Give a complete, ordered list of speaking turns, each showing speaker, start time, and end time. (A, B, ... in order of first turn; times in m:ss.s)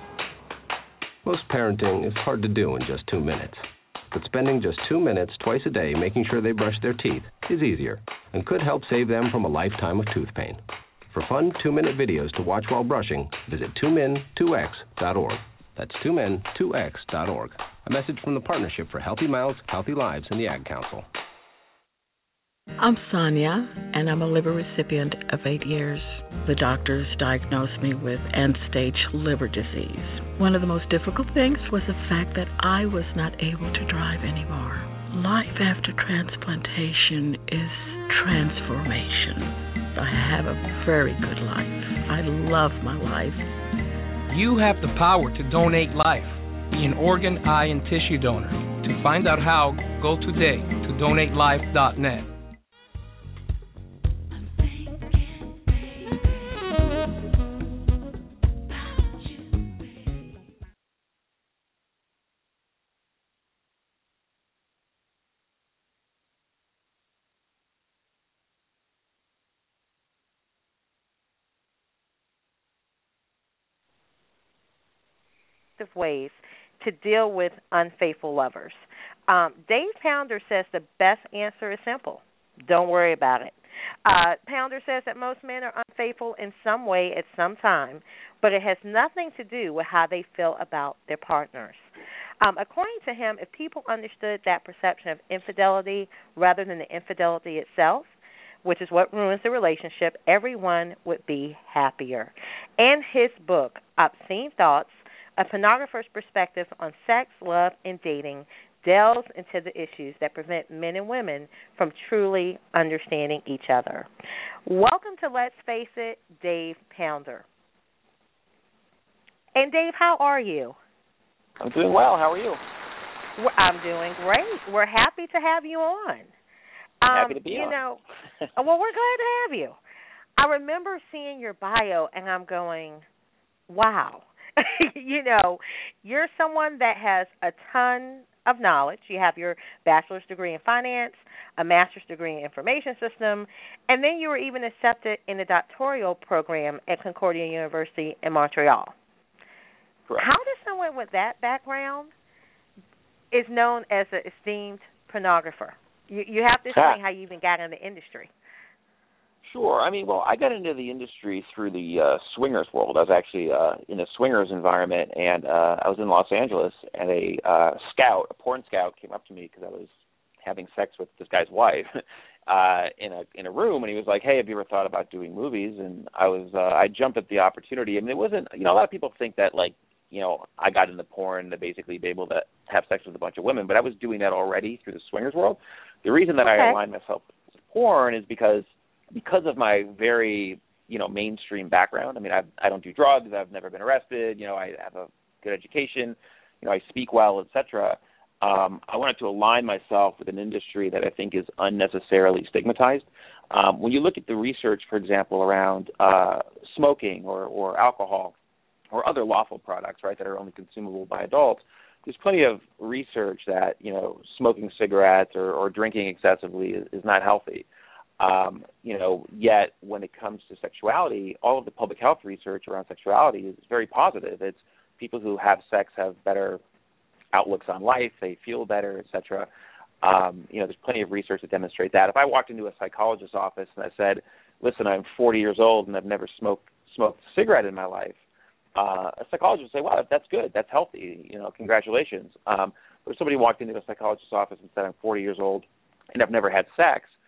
0:01.2-0:21.1 A
0:22.8-0:43.4 B
0:44.3-0:52.3 C
1:15.8-1:54.1 D
1:54.7-1:57.4 D
1:59.6-2:00.8 D
2:01.6-2:02.6 E
2:03.4-2:06.3 D
2:07.0-2:08.0 D
2:07.1-2:07.8 E
2:08.6-2:09.8 D
2:10.4-2:13.0 D
2:13.7-2:28.9 D
2:30.2-2:32.1 D
2:33.3-2:38.3 D
2:36.7-2:37.0 E
2:39.4-3:28.4 E
3:06.4-3:06.8 D
3:28.9-3:37.7 E
3:38.2-3:46.6 E
3:47.3-3:49.5 E
3:50.0-3:58.2 E
3:58.8-4:07.1 E